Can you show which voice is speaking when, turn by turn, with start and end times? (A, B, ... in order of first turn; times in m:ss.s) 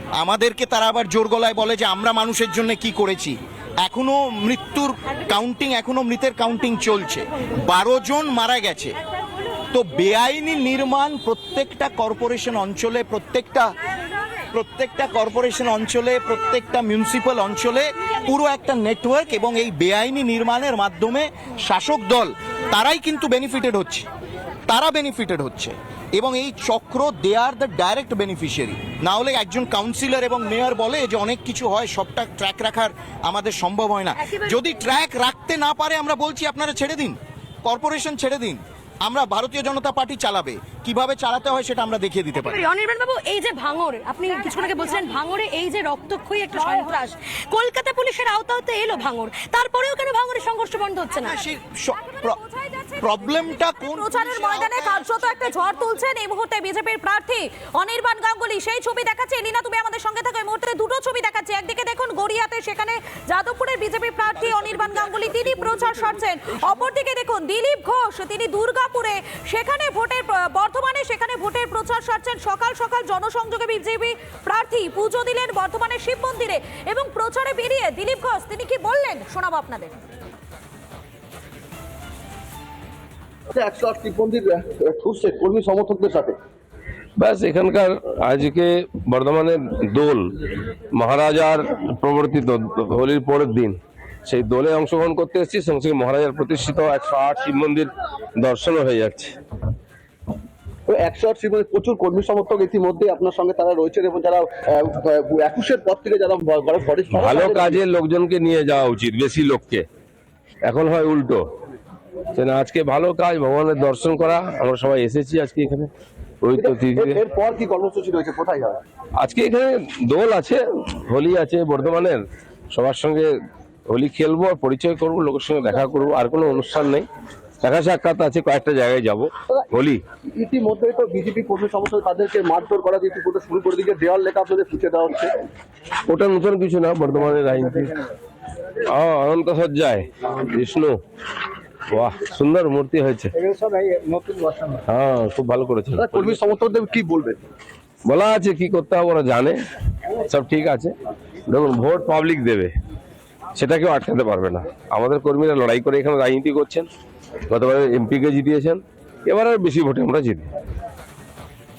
0:00.1-0:09.0 A
0:09.7-0:13.7 A
0:14.5-0:24.0 A
0:24.7-0:42.6 A
0:34.2-0:34.6 B
0:42.4-0:51.3 B
0:51.2-0:52.4 A
0:52.1-1:20.0 C
0:53.0-0:55.5 A
1:23.5-1:26.4 D
1:27.2-1:30.3 E
1:30.9-1:37.9 E
1:38.4-1:39.3 E
1:40.9-1:47.8 D
1:47.1-1:49.8 E
1:50.6-1:51.4 E
1:52.3-1:55.9 E
1:56.4-1:57.2 E
1:56.5-1:58.8 D
1:59.2-2:03.3 E
2:03.9-2:07.1 E
2:07.6-2:10.0 E
2:10.3-2:15.3 D
2:16.1-2:18.0 E
2:18.9-2:21.0 E
2:21.9-2:23.3 E
2:23.7-2:24.7 D
2:24.9-2:26.4 E
2:25.9-2:27.4 D
2:28.0-2:29.6 E
2:30.3-2:30.9 E
2:31.5-2:32.7 E
2:33.6-2:36.9 E
2:37.5-2:40.4 E